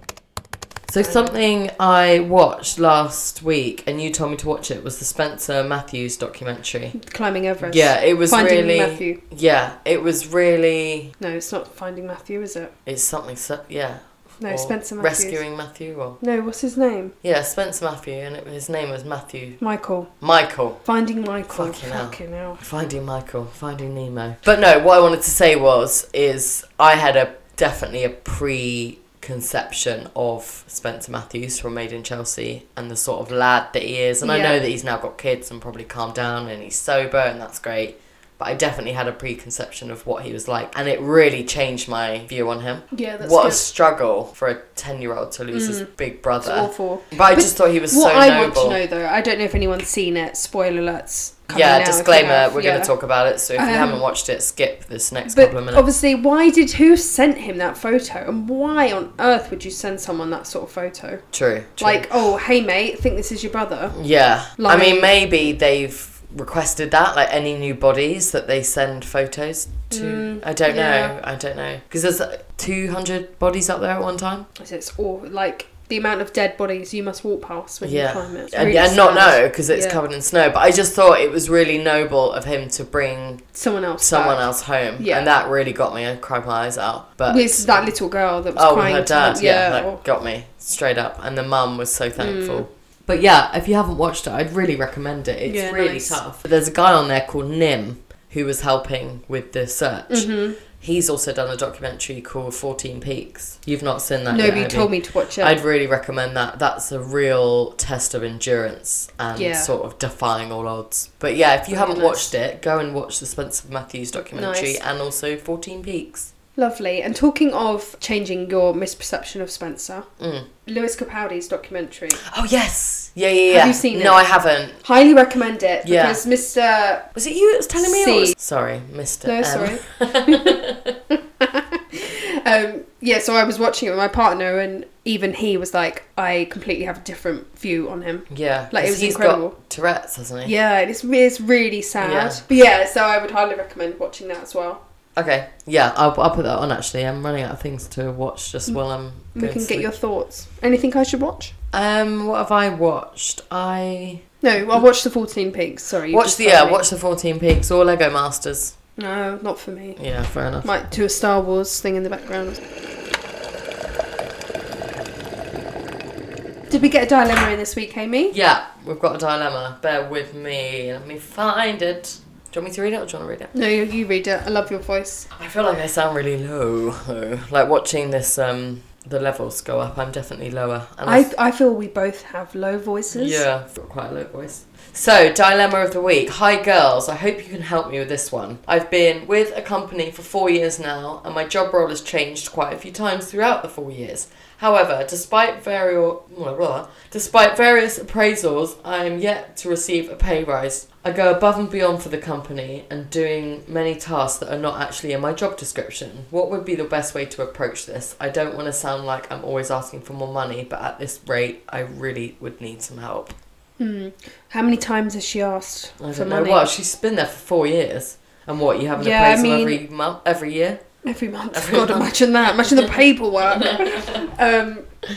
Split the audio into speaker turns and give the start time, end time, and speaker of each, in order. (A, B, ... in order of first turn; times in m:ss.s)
0:00.9-0:06.9 A
0:01.0-0:01.3 B
0:06.9-0:09.2 B
0:07.6-0:11.1 A
0:11.2-0:12.7 B
0:12.8-0:16.2 A
0:14.4-0:15.4 B
0:16.2-0:17.1 B
0:17.2-0:19.6 A
0:19.6-0:20.1 B
0:20.2-0:20.8 A
0:20.8-0:22.6 B
0:21.5-0:48.8 A
0:34.2-0:34.6 B
0:42.9-0:43.7 B
0:45.5-0:45.9 B
0:46.4-0:52.9 B
0:51.5-0:55.9 A
0:53.6-0:54.0 B
0:55.3-1:01.2 B
1:01.3-1:02.0 A
1:01.8-1:04.0 B
1:03.9-1:14.5 A
1:04.6-1:05.1 B
1:09.9-1:11.1 B
1:14.6-1:20.0 B
1:17.8-1:23.4 A
1:23.5-1:25.3 B
1:24.0-1:27.9 A
1:27.3-1:30.0 B
1:28.5-1:56.3 A
1:32.2-1:32.6 B
1:35.4-1:36.2 B
1:40.1-1:40.6 B
1:44.3-1:45.6 B
1:49.3-1:49.7 B
1:51.7-1:52.3 B
1:54.3-1:54.8 B
1:56.6-2:00.1 B
2:00.2-2:00.5 A
2:00.6-2:02.2 B
2:02.2-2:04.8 A
2:03.5-2:04.2 B
2:04.8-2:07.1 B
2:05.8-2:06.2 A
2:07.1-2:11.0 A
2:07.8-2:08.4 B
2:09.2-2:10.6 B
2:11.1-2:19.6 B
2:18.3-2:20.5 A
2:20.4-2:24.8 B
2:22.0-2:22.4 A
2:25.2-2:29.9 A
2:29.3-2:31.5 B
2:31.7-2:34.2 A
2:34.4-2:36.8 B
2:36.1-2:38.7 A
2:39.0-2:40.0 B
2:40.0-2:40.7 A
2:40.6-2:42.6 B
2:46.7-2:48.3 B
2:48.3-2:53.5 A
2:53.5-2:55.3 B
2:55.3-3:01.3 A
3:01.0-3:03.4 B
3:03.1-3:33.4 A
3:33.8-3:36.6 B
3:36.0-3:40.8 A
3:39.0-3:39.8 B
3:41.0-3:44.9 B
3:41.5-3:42.1 A
3:43.6-3:44.0 A